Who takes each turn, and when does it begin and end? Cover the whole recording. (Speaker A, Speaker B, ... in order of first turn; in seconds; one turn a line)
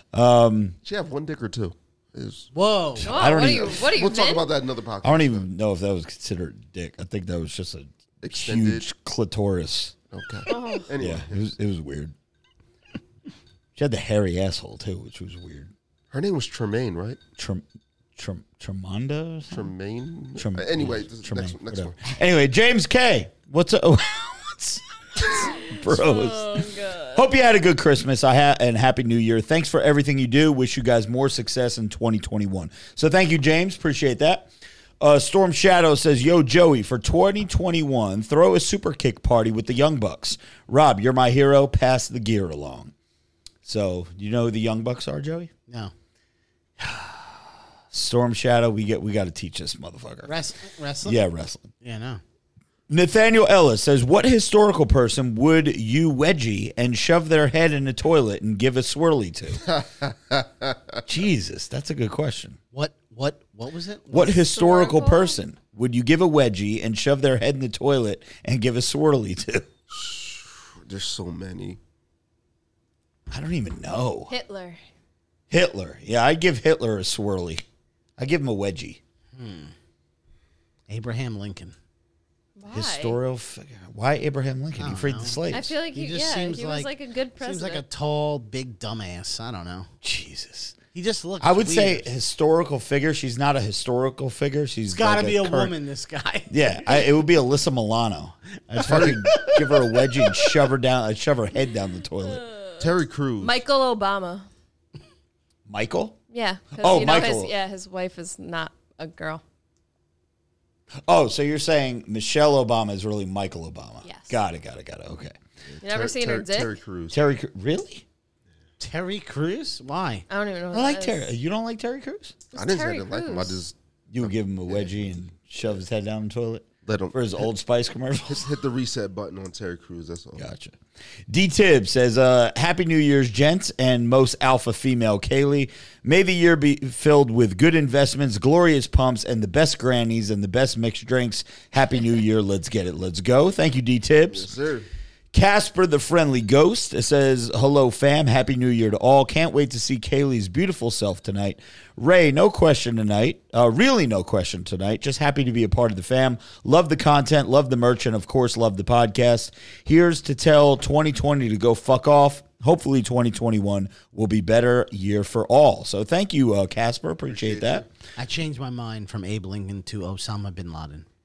Speaker A: 0.1-0.8
Speaker B: 0.8-2.5
Speaker C: 2.5-3.1
Speaker A: 3.0-3.8
Speaker D: 3.0-4.4
Speaker B: 3.2-5.5
Speaker A: 5.0-9.9
Speaker B: 8.2-8.8
Speaker B: 10.1-11.4
Speaker D: 10.5-10.9
Speaker A: 11.0-12.1
Speaker A: 13.8-15.7
Speaker B: 16.1-17.2
Speaker A: 17.4-17.6
Speaker A: 18.2-19.7
Speaker B: 19.5-22.0
Speaker A: 20.4-42.9
Speaker D: 25.3-27.2
Speaker A: 43.6-45.5
Speaker A: 46.8-50.3
Speaker C: 50.2-51.2
Speaker A: 51.0-51.7
Speaker C: 51.8-52.2
Speaker A: 52.9-59.7
Speaker B: 59.7-61.0
Speaker A: 61.1-62.6
Speaker C: 62.7-64.4
Speaker A: 64.1-69.7
Speaker D: 64.5-65.4
Speaker B: 69.9-71.8
Speaker A: 73.3-74.3
Speaker D: 74.3-74.8
Speaker A: 75.5-77.6
Speaker A: 78.2-79.0
Speaker C: 79.3-79.7
Speaker C: 80.9-81.8
Speaker D: 82.6-83.2
Speaker A: 82.7-85.8
Speaker C: 84.8-85.4
Speaker D: 85.5-87.8
Speaker C: 85.9-89.9
Speaker A: 90.0-90.8
Speaker C: 90.9-92.1
Speaker A: 91.4-95.8
Speaker C: 94.9-97.0
Speaker A: 96.5-102.4
Speaker C: 98.7-100.6
Speaker B: 98.8-99.2
Speaker D: 102.2-102.9
Speaker B: 102.8-103.6
Speaker D: 103.4-104.5
Speaker A: 105.7-106.2
Speaker D: 106.3-109.4
Speaker A: 106.8-107.5
Speaker A: 111.0-115.3
Speaker D: 114.0-114.3
Speaker B: 115.8-117.2
Speaker D: 115.8-116.8
Speaker A: 117.1-118.0
Speaker C: 118.8-120.3
Speaker D: 120.3-121.3
Speaker A: 120.7-122.4
Speaker D: 122.5-123.6
Speaker B: 122.5-124.9
Speaker A: 124.1-128.5
Speaker B: 126.8-127.5
Speaker B: 128.3-130.4
Speaker A: 130.4-130.8
Speaker A: 131.3-144.5
Speaker B: 144.3-144.9
Speaker A: 145.3-167.9
Speaker B: 167.3-167.9
Speaker C: 168.2-171.1